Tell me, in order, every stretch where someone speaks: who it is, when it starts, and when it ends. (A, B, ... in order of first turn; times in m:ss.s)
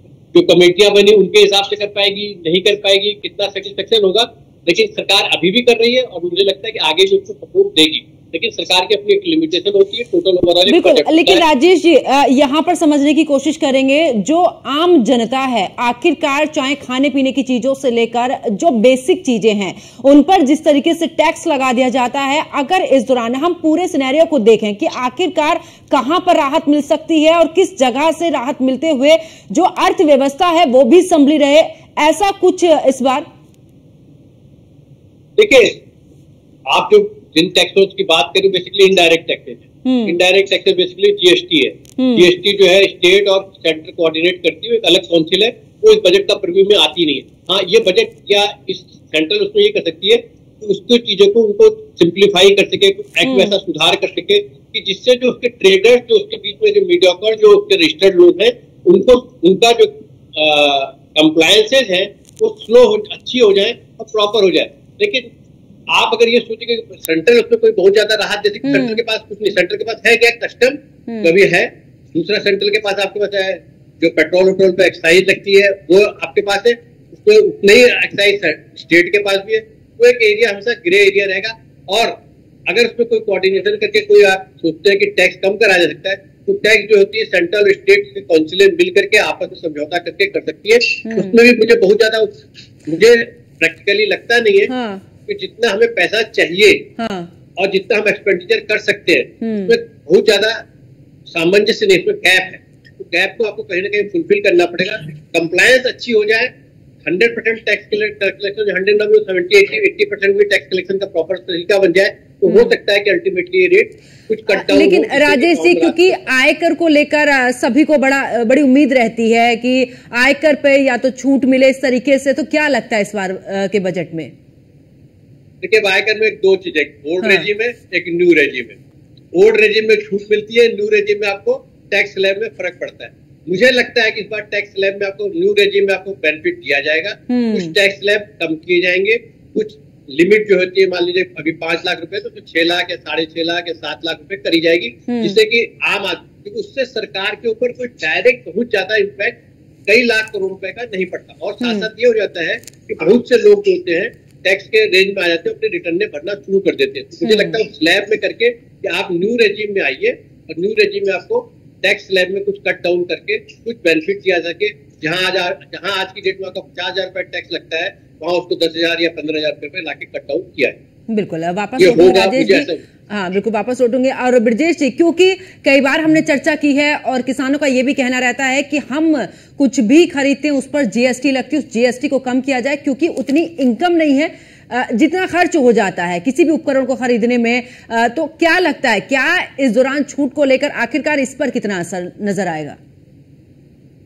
0:00.3-0:11.4 A
0:10.7-0:33.3 B
0:35.4-0:35.8 A
0:36.7-1:05.3 A
0:39.8-0:40.2 B
0:42.0-0:42.3 B
0:53.2-0:53.6 B
1:05.9-1:34.7 A
1:08.6-1:09.0 B
1:11.1-1:11.3 B
1:31.0-1:31.4 B
1:34.7-1:35.0 B
1:35.3-1:36.9 A
1:37.0-1:37.3 B
1:37.6-1:40.6 A
1:39.4-1:39.8 B
1:41.3-1:56.3 A
1:54.5-2:04.3 B
2:05.6-2:08.8 A
2:07.2-2:07.5 B
2:09.3-2:50.8 A
2:17.3-2:17.8 B
2:25.1-2:25.4 B
2:31.6-2:31.9 B
2:37.2-2:37.6 B
2:51.1-3:12.8 B
2:51.8-2:52.8 A